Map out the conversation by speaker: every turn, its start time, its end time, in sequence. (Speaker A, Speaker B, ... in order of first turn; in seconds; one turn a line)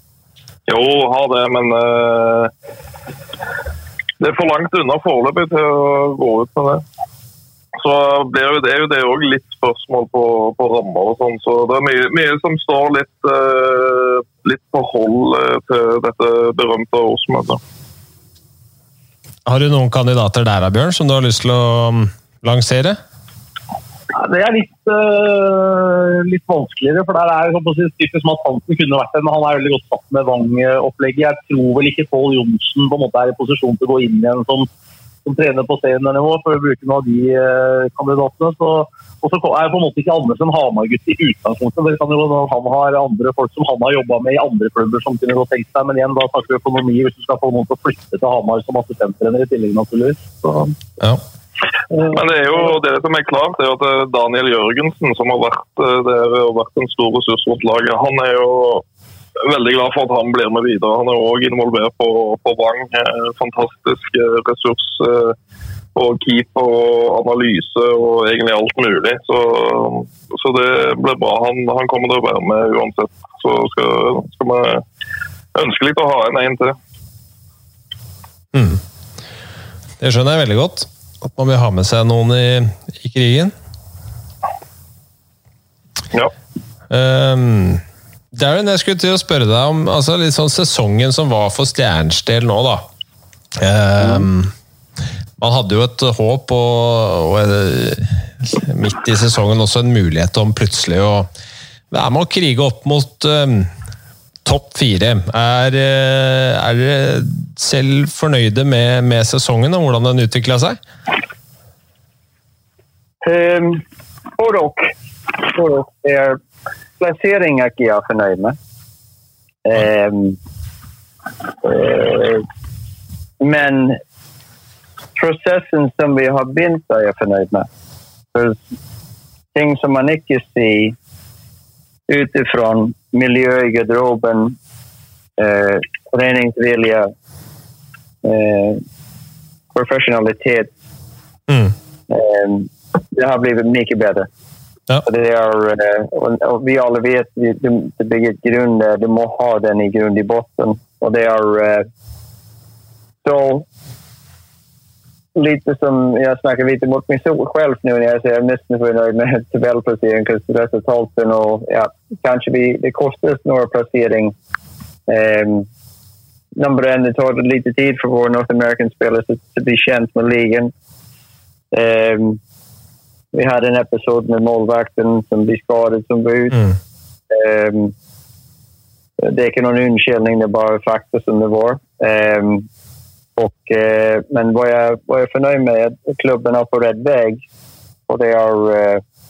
Speaker A: 0.7-2.5
Speaker A: 4.2-6.8
Speaker A: 7.8-17.6
Speaker B: 19.5-23.0
Speaker C: 24.1-34.7
Speaker C: 35.2-50.8
Speaker A: 52.1-58.8
Speaker A: 59.5-65.4
Speaker A: 66.0-74.8
Speaker A: 75.5-76.8
Speaker B: 78.5-78.8
Speaker B: 80.0-83.5
Speaker B: 86.9-92.8
Speaker B: 93.6-94.5
Speaker B: 95.4-101.3
Speaker B: 101.9-103.7
Speaker B: 104.5-110.8
Speaker D: 113.2-113.8
Speaker D: 114.4-116.4
Speaker D: 117.0-118.6
Speaker D: 119.7-120.4
Speaker D: 121.6-122.4
Speaker D: 123.4-124.0
Speaker D: 125.2-127.7
Speaker D: 128.3-128.6
Speaker D: 129.6-131.0
Speaker D: 132.1-134.6
Speaker D: 135.4-137.1
Speaker D: 138.2-138.8
Speaker D: 139.7-140.7
Speaker B: 141.5-141.7
Speaker D: 142.1-144.3
Speaker D: 145.0-151.8
Speaker D: 153.2-153.7
Speaker D: 155.4-164.3
Speaker D: 165.1-165.7
Speaker D: 166.6-170.7
Speaker D: 171.7-172.4
Speaker D: 173.3-176.8
Speaker D: 177.3-177.9
Speaker D: 179.2-182.7
Speaker D: 183.4-187.4
Speaker D: 188.1-189.0